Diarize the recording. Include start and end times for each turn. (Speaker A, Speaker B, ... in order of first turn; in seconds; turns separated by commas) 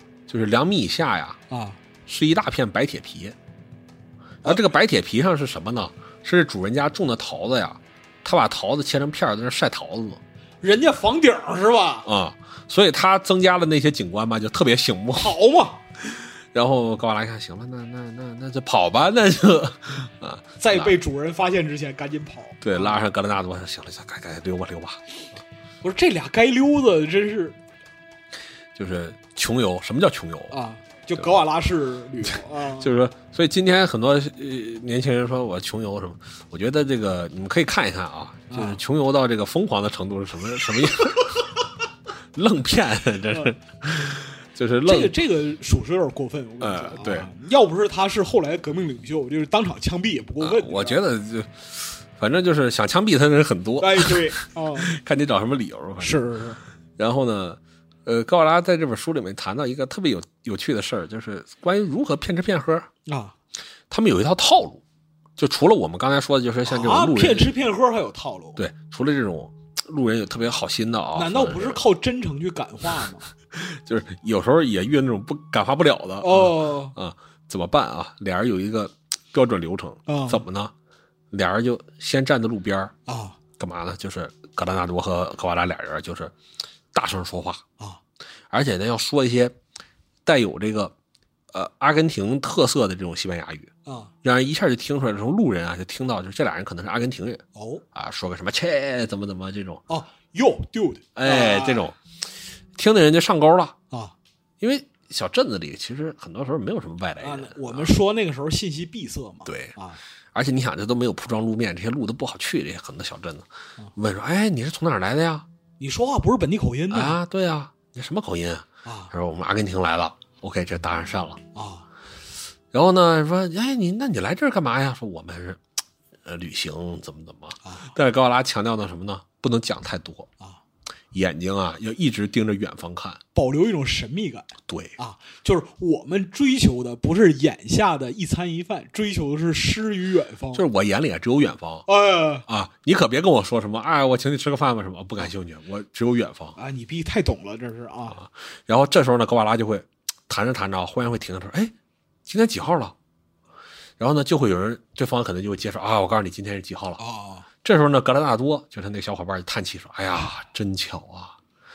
Speaker A: 0.3-1.4, Speaker B: 1.5-1.8, Speaker A: 2.1-3.4, Speaker A: 4.4-10.2, Speaker B: 10.6-12.1, Speaker A: 12.1-15.3, Speaker B: 15.2-15.8, Speaker A: 16.5-21.0, Speaker B: 20.6-23.0, Speaker A: 22.6-25.0, Speaker B: 25.8-27.6, Speaker A: 28.8-30.6, Speaker B: 30.5-33.0, Speaker A: 32.8-41.4, Speaker B: 38.5-38.8, Speaker A: 42.3-45.1, Speaker B: 43.3-43.5, Speaker B: 44.9-51.0, Speaker A: 46.6-47.3, Speaker A: 50.4-56.2, Speaker B: 53.8-54.9, Speaker B: 56.0-56.6, Speaker A: 57.0-62.9, Speaker B: 63.1-63.4, Speaker A: 63.9-64.8, Speaker A: 65.4-67.5, Speaker B: 66.7-68.6, Speaker A: 68.6-71.8, Speaker B: 71.1-73.3, Speaker A: 73.5-80.7, Speaker B: 76.2-77.0, Speaker B: 80.1-80.4, Speaker A: 81.3-82.9, Speaker B: 83.1-83.4, Speaker A: 83.6-86.3, Speaker A: 86.9-87.6, Speaker A: 88.5-89.6, Speaker A: 90.3-90.9, Speaker A: 91.5-93.7, Speaker B: 93.9-94.1, Speaker A: 94.2-99.8, Speaker B: 97.5-97.8, Speaker B: 99.9-101.9, Speaker A: 101.2-102.0, Speaker A: 102.8-103.8, Speaker A: 104.6-107.9, Speaker B: 107.2-110.0, Speaker A: 109.5-109.8, Speaker A: 110.3-115.5, Speaker B: 115.8-117.2, Speaker A: 116.9-121.4, Speaker B: 118.8-119.1, Speaker B: 121.5-121.9, Speaker A: 122.7-125.6, Speaker A: 126.2-130.3, Speaker B: 127.6-127.9, Speaker A: 131.1-133.2, Speaker B: 133.3-140.7, Speaker A: 134.7-134.9, Speaker A: 140.5-141.9, Speaker B: 141.9-142.5, Speaker A: 142.5-146.6, Speaker B: 146.6-148.2, Speaker A: 148.1-151.7, Speaker A: 152.3-152.9, Speaker A: 154.0-157.0, Speaker B: 157.0-157.5, Speaker A: 157.6-161.4